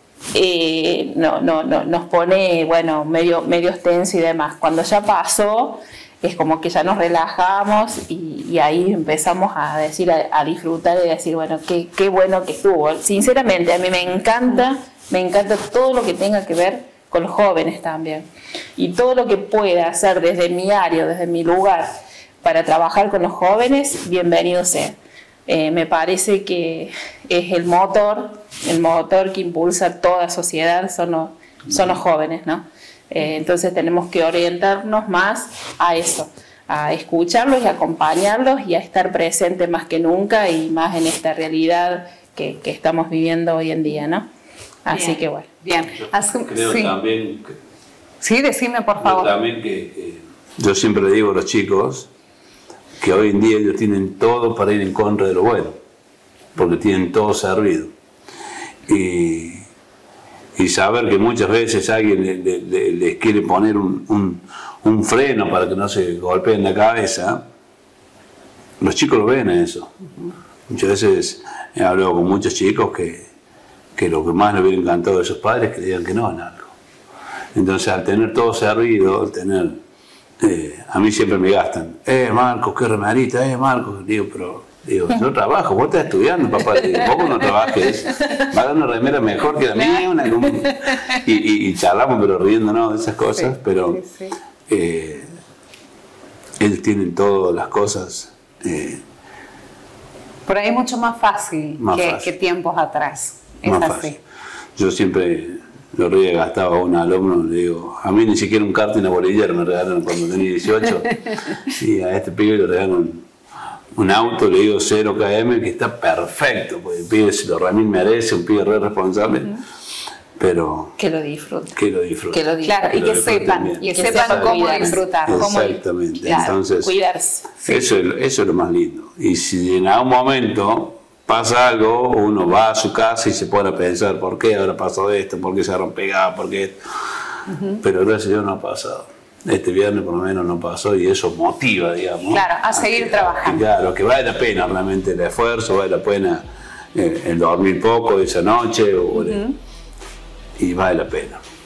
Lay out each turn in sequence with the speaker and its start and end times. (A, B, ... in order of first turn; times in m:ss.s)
0:00.3-0:21.9 A
0:22.4-0:44.3 A
0:44.8-0:45.5 A
0:44.9-0:47.0 B
0:46.4-0:47.5 C
0:48.2-0:49.4 B
0:49.0-0:52.1 C
0:53.0-0:55.8 C
0:56.6-0:57.9 C
0:58.9-0:59.7 C
1:00.6-1:07.4 C
1:08.8-1:09.9 C
1:10.7-1:13.3 C
1:14.0-1:16.7 C
1:17.6-1:19.8 C
1:20.4-1:34.0 C
1:29.8-1:30.1 B
1:33.4-1:34.4 B
1:34.7-1:35.3 C
1:36.6-1:39.0 C
1:40.5-1:44.2 B
1:41.8-1:42.3 C
1:43.6-1:44.2 C
1:44.8-1:53.2 C
1:54.0-1:59.5 C
2:00.4-2:01.0 C
2:01.0-2:01.8 A
2:01.8-2:07.0 C
2:02.3-2:02.9 A
2:02.6-2:05.5 B
2:03.8-2:07.5 A
2:06.2-2:06.6 B
2:07.6-2:07.9 B
2:07.7-2:16.8 C
2:17.5-2:17.8 B
2:17.8-2:26.4 C
2:22.3-2:23.6 B
2:26.9-2:29.4 C
2:29.1-2:29.6 B
2:30.6-2:31.4 C